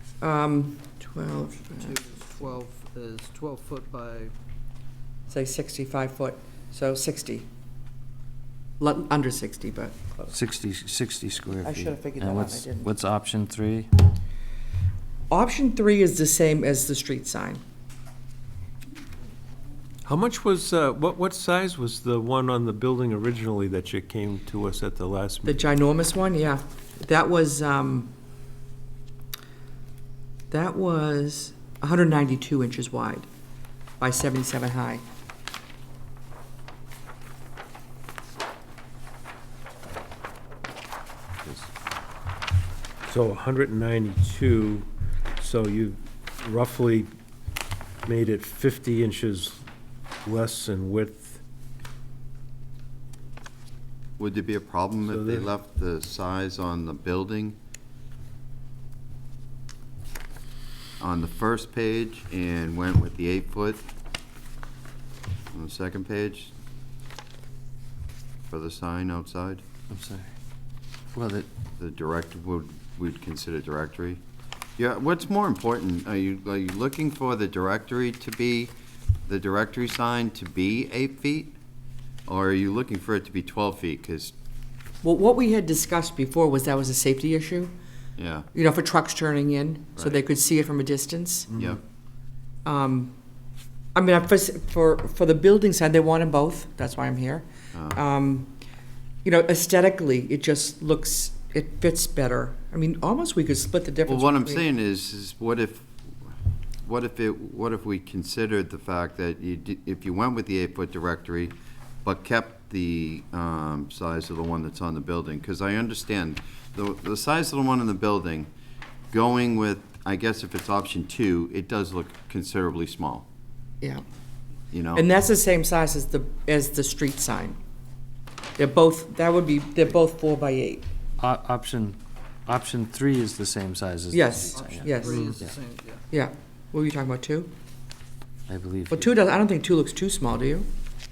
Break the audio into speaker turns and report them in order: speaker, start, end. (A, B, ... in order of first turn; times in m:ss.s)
0:00.2-0:02.0 A
0:01.8-0:04.3 B
0:05.3-0:07.5 A
0:08.8-0:10.3 A
0:10.3-0:13.9 C
0:11.6-0:12.9 A
0:15.3-0:17.6 A
0:20.0-0:25.6 D
0:25.4-0:28.1 A
0:30.5-0:33.3 A
0:34.0-0:35.0 A
0:43.1-0:44.9 D
0:45.4-0:47.1 D
0:48.0-0:49.6 D
0:50.2-0:51.4 D
0:54.2-0:57.6 E
0:55.0-0:55.5 D
1:01.0-1:03.8 E
1:05.5-1:06.5 E
1:08.5-1:09.6 E
1:09.9-1:10.3 C
1:11.1-1:11.5 C
1:11.8-1:14.2 E
1:14.8-1:18.7 E
1:19.3-1:21.5 E
1:22.3-1:24.3 E
1:25.0-1:27.7 A
1:28.2-1:28.5 E
1:28.5-1:31.5 A
1:30.0-1:30.2 E
1:31.5-1:31.8 E
1:32.6-1:33.1 A
1:33.9-1:38.5 A
1:37.7-1:38.0 E
1:39.2-1:44.6 A
1:44.1-1:45.9 E
1:46.8-1:58.5 E
1:59.1-2:03.2 E
2:04.7-2:05.0 E
2:04.9-2:07.6 A
2:08.6-2:10.9 A
2:11.2-2:15.5 C
2:14.1-2:15.3 A
2:14.5-2:16.0 B
2:15.1-2:15.3 D
2:16.1-2:17.5 A
2:18.5-2:19.2 C
2:18.9-2:20.7 A